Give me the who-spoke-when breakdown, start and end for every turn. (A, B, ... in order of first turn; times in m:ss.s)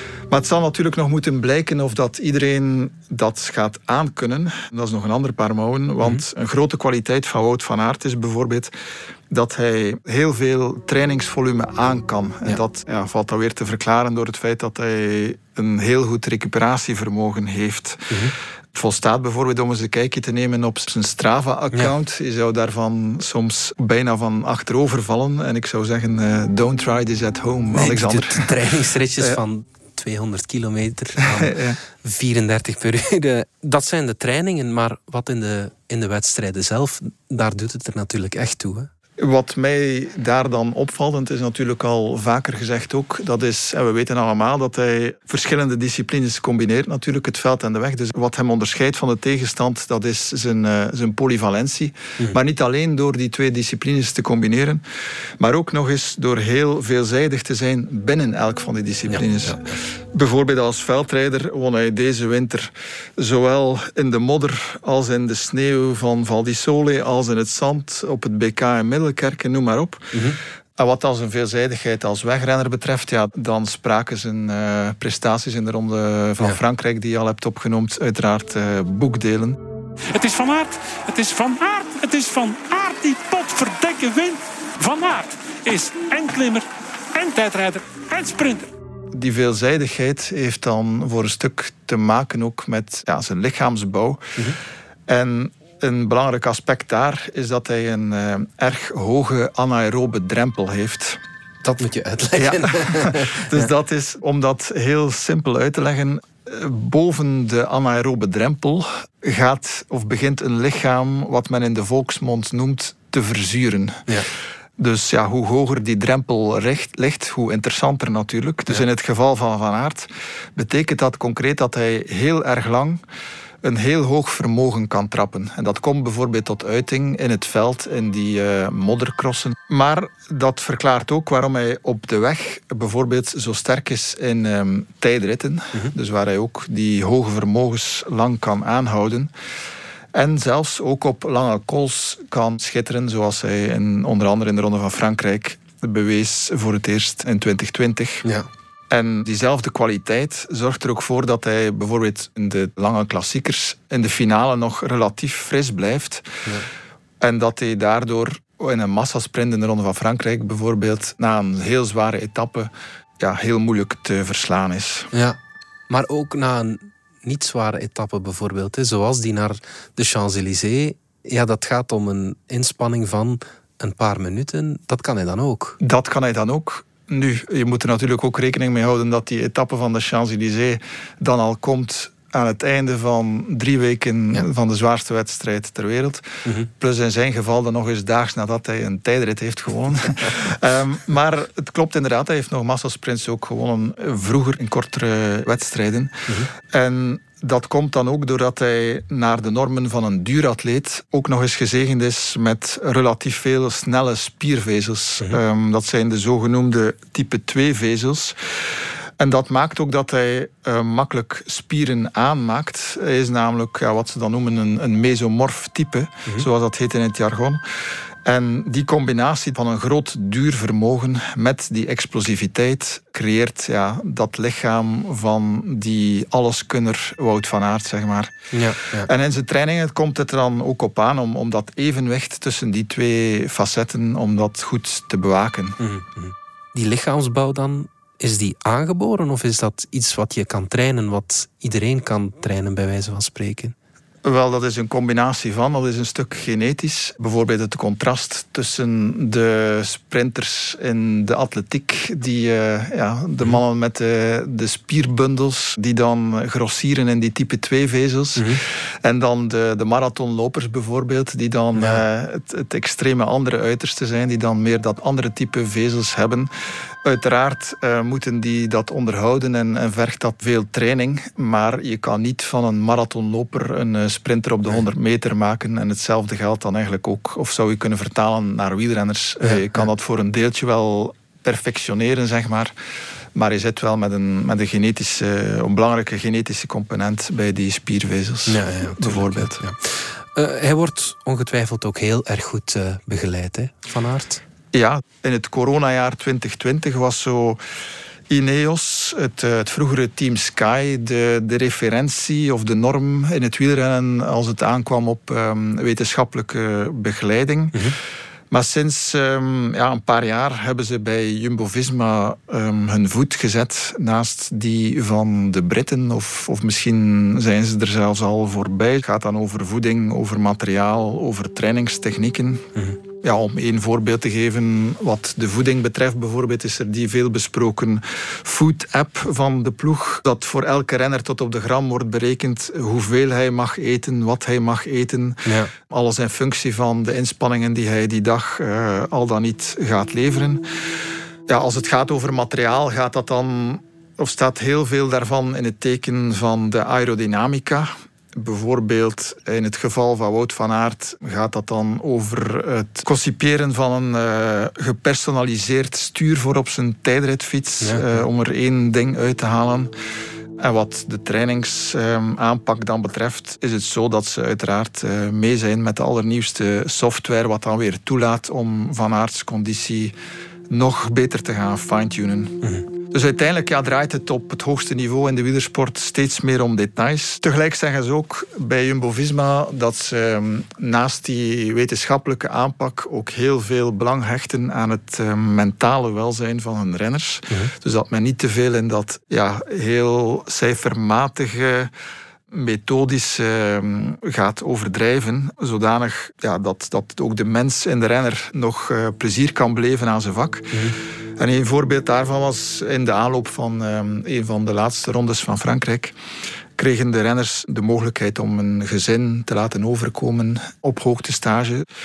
0:00.3-0:08.7 A
0:09.3-0:18.1 A
0:18.7-0:28.6 A
0:27.7-0:38.9 B
0:31.2-0:31.8 A
0:39.2-0:54.8 A
0:55.4-1:10.1 A
0:59.1-0:59.8 B
1:10.1-1:10.4 B
1:10.8-1:19.6 A
1:20.1-1:28.7 C
1:29.1-1:34.2 A
1:35.1-1:41.2 A
1:41.6-1:43.7 B
1:42.3-1:54.0 A
1:54.8-2:03.0 A
2:03.6-2:19.3 A
2:20.1-2:28.2 A
2:28.9-2:36.4 A
2:37.2-2:45.1 A
2:45.1-2:45.4 B
2:45.9-2:55.8 B
2:55.8-3:28.4 A
3:29.2-3:37.6 A
3:38.2-3:48.3 A
3:48.5-3:49.1 B
3:49.0-3:55.8 A
3:55.8-4:03.7 B
4:04.2-4:26.5 A
4:21.8-4:22.0 B
4:27.0-4:42.7 A
4:43.3-4:49.6 A
4:48.5-4:54.4 B
4:54.7-4:57.6 A
4:58.3-5:07.9 A
5:08.5-5:40.6 A
5:35.4-5:35.7 B
5:41.5-5:59.9 A
5:57.8-5:58.2 B
6:00.6-6:10.2 A
6:10.7-6:31.9 A
6:32.5-6:40.8 A
6:40.7-6:41.0 B
6:41.4-6:46.2 A
6:46.8-6:51.8 A